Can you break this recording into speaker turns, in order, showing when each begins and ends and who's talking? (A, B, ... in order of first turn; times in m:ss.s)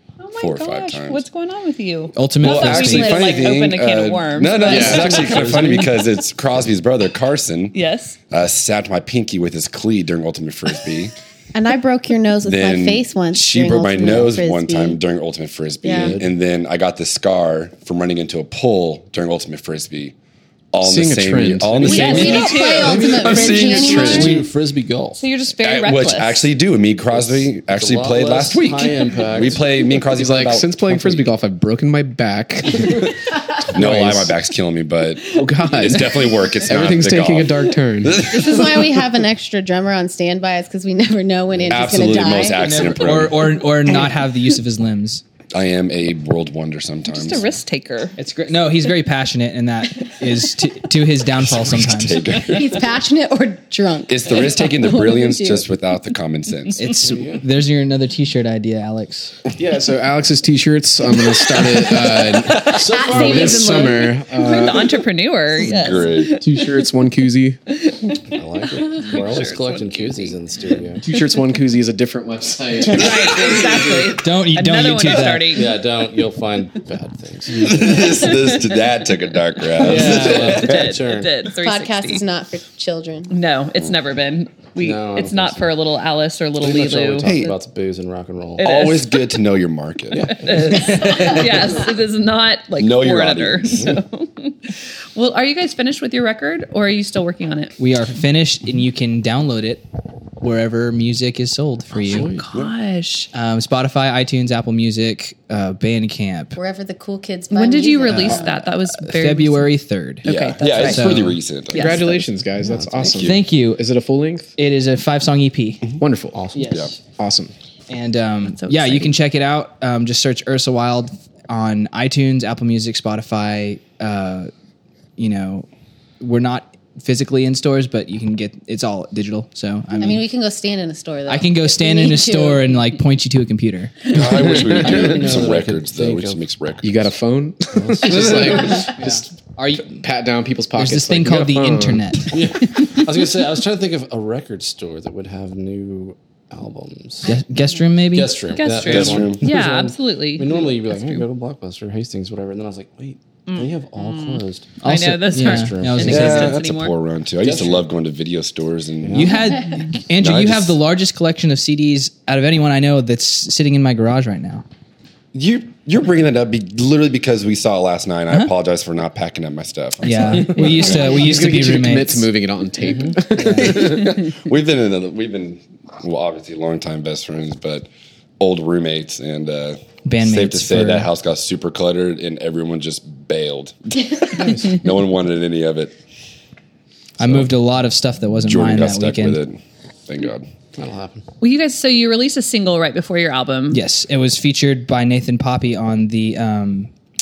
0:00.2-0:05.3 A
0:00.4-0:01.2 B
0:02.2-0:03.3 C
0:02.4-0:07.8 B
0:04.6-0:06.0 D
0:04.7-0:05.1 E
0:07.7-0:08.2 A
0:08.3-0:11.1 B
0:11.5-0:15.0 F
0:12.4-0:20.2 B
0:15.8-0:16.2 F
0:15.9-0:16.3 D
0:20.7-0:24.4 B
0:20.8-0:22.3 E
0:21.8-0:24.5 F
0:21.8-0:23.5 A
0:22.8-0:25.2 D
0:25.2-0:26.5 A
0:25.6-0:31.3 B
0:27.1-0:29.7 D
0:30.0-0:33.1 E
0:33.7-0:34.4 E
0:33.7-0:39.0 B
0:35.3-0:38.3 E
0:38.2-0:42.9 F
0:41.7-0:43.6 B
0:42.6-0:45.2 C
0:45.5-0:47.5 B
0:47.1-0:48.2 A
0:48.2-0:52.3 C
0:51.4-0:52.8 B
0:52.4-0:55.7 F
0:54.1-0:56.9 B
0:56.8-0:59.4 C
0:56.9-0:57.4 D
0:59.6-1:05.0 E
1:02.2-1:06.9 A
1:02.7-1:03.9 D
1:02.7-1:04.0 F
1:05.6-1:06.4 B
1:06.3-1:07.6 E
1:07.7-1:10.4 A
1:08.3-1:11.0 D
1:11.0-1:14.1 E
1:12.8-1:15.7 A
1:14.2-1:15.6 C
1:15.5-1:18.4 D
1:17.6-1:20.9 B
1:18.0-1:18.9 A
1:19.6-1:22.2 A
1:19.8-1:21.3 D
1:21.6-1:23.4 F
1:23.3-1:27.4 A
1:24.8-1:25.7 D
1:26.6-1:28.7 D
1:27.2-1:27.6 B
1:28.6-1:29.4 A
1:28.6-1:31.5 B
1:30.1-1:31.2 D
1:30.3-1:37.7 A
1:32.8-1:33.9 B
1:33.7-1:34.0 D
1:37.8-1:39.8 C
1:40.4-1:42.3 C
1:42.0-1:42.5 D
1:42.1-1:43.3 A
1:43.3-1:46.6 C
1:46.6-1:48.7 F
1:47.5-1:49.7 A
1:48.1-1:51.4 C
1:50.2-1:52.0 B
1:50.2-1:52.2 A
1:51.7-1:54.6 E
1:52.6-1:53.2 D
1:53.1-1:53.4 B
1:53.2-1:53.8 C
1:54.6-1:55.9 C
1:56.0-1:56.4 E
1:56.3-1:56.8 D
1:56.5-1:57.0 C
1:56.7-1:56.9 B
1:57.2-1:57.5 E
1:57.9-2:04.5 C
1:58.5-1:59.1 A
2:05.2-2:05.7 C
2:06.2-2:10.2 C
2:10.0-2:12.8 F
2:11.3-2:14.2 C
2:14.1-2:17.0 B
2:14.3-2:15.0 E
2:14.6-2:16.4 D
2:16.8-2:19.3 E
2:17.7-2:18.8 D
2:18.7-2:20.0 C
2:19.8-2:22.2 E
2:20.8-2:22.4 C
2:22.3-2:27.3 D
2:27.2-2:28.4 C
2:28.1-2:34.7 D
2:28.5-2:31.3 A
2:28.8-2:29.5 B
2:33.5-2:37.0 A
2:34.8-2:36.6 C
2:35.3-2:36.5 D
2:36.0-2:39.4 B
2:37.4-2:37.9 D
2:39.0-2:39.4 D
2:39.1-2:44.6 C
2:40.2-2:40.8 B
2:45.3-2:51.2 B
2:50.0-2:52.3 C
2:50.3-2:54.2 E
2:52.8-2:53.4 D
2:53.4-2:53.8 C
2:53.5-3:05.9 B
3:00.0-3:01.1 C
3:04.3-3:04.8 D
3:07.2-3:09.4 C
3:07.2-3:07.5 B
3:08.4-3:10.5 B
3:10.8-3:11.2 D
3:11.4-3:13.8 A
3:13.7-3:16.9 C